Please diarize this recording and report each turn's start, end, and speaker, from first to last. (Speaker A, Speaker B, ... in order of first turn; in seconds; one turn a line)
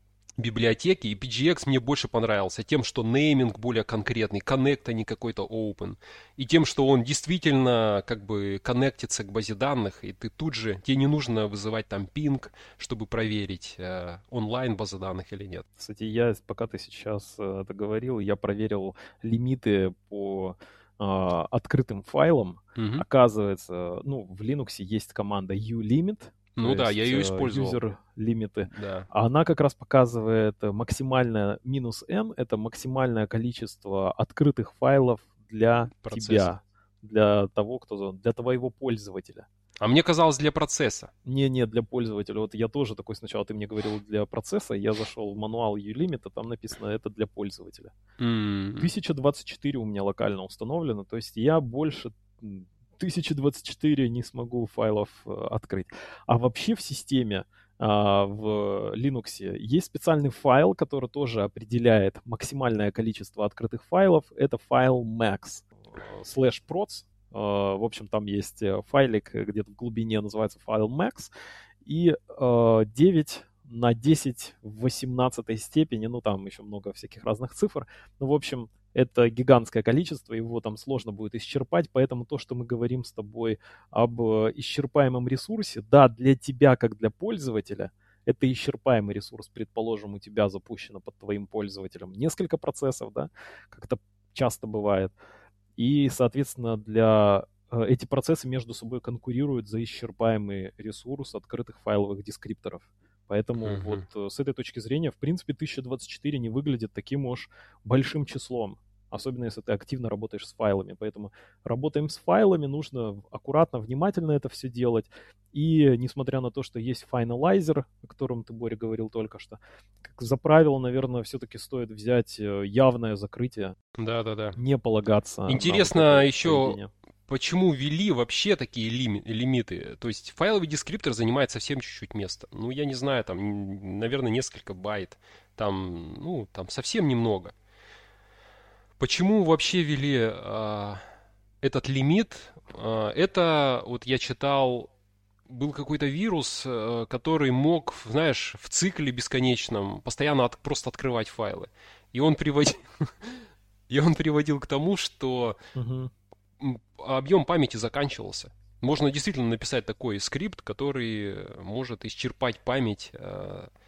Speaker A: 0.4-15.6
Speaker B: 15.8-39.5
Speaker A: 22.8-23.0
Speaker A: 26.6-27.8
Speaker A: 28.7-29.1
Speaker A: 36.0-36.5
Speaker A: 39.8-41.1
Speaker B: 41.2-47.9
Speaker A: 48.2-48.9
Speaker B: 48.8-71.3
Speaker B: 71.8-95.1
Speaker B: 95.8-123.8
Speaker A: 103.6-104.0
Speaker A: 124.0-124.6
Speaker B: 124.5-126.9
Speaker A: 125.5-126.8
Speaker A: 127.3-137.5
Speaker A: 139.0-141.0
Speaker A: 141.6-144.9
Speaker A: 145.5-155.6
Speaker B: 155.7-156.1
Speaker A: 156.6-163.7